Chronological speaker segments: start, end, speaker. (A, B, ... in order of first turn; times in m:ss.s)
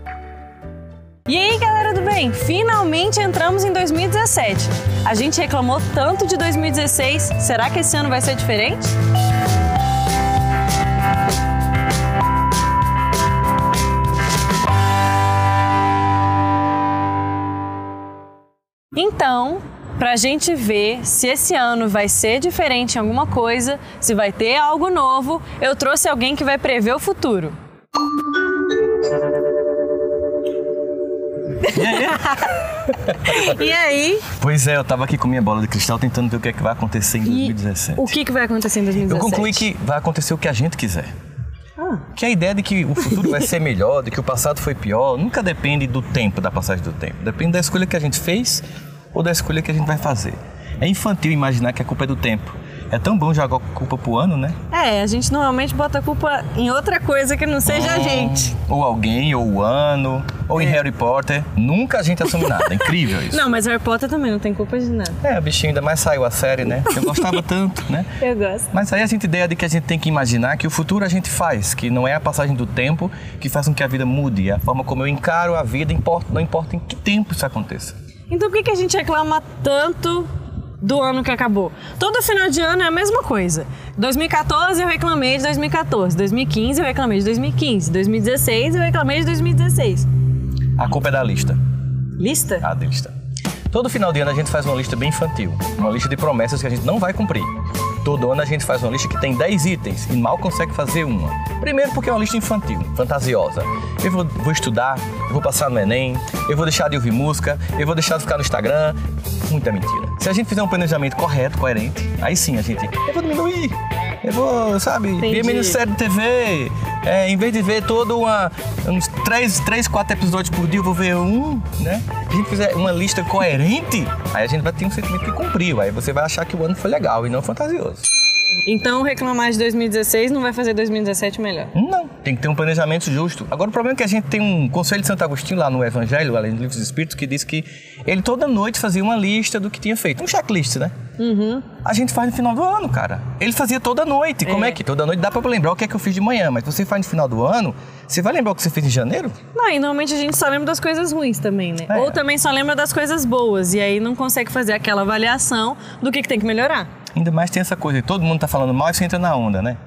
0:01.3-0:09.0 A
0:18.9-0:27.6 A
0:31.7-0:32.5 A
0:31.7-0:33.5 B
0:33.2-0:34.3 A
0:34.3-0:38.1 B
0:37.2-0:39.6 A
0:39.1-0:41.1 B
0:42.2-0:54.6 B
0:54.7-0:58.5 A
0:57.7-1:03.4 B
1:02.6-1:05.2 A
1:05.2-1:08.1 B
1:06.9-1:07.2 A
1:08.2-1:08.7 A
1:08.7-1:17.9 B
1:18.3-1:20.3 A
1:20.8-1:30.1 A
1:30.8-1:31.6 B
1:32.2-1:32.6 A
1:32.6-1:33.1 B
1:33.7-1:37.5 B
1:38.0-1:49.0 B
1:49.5-2:08.1 B
1:55.2-1:55.8 A
2:08.7-2:11.7 A
2:11.7-2:20.9 B
2:21.2-2:21.7 A
2:21.8-2:29.4 B
2:24.4-2:24.8 A
2:29.5-2:36.9 A
2:31.9-2:32.2 B
2:37.2-2:39.8 B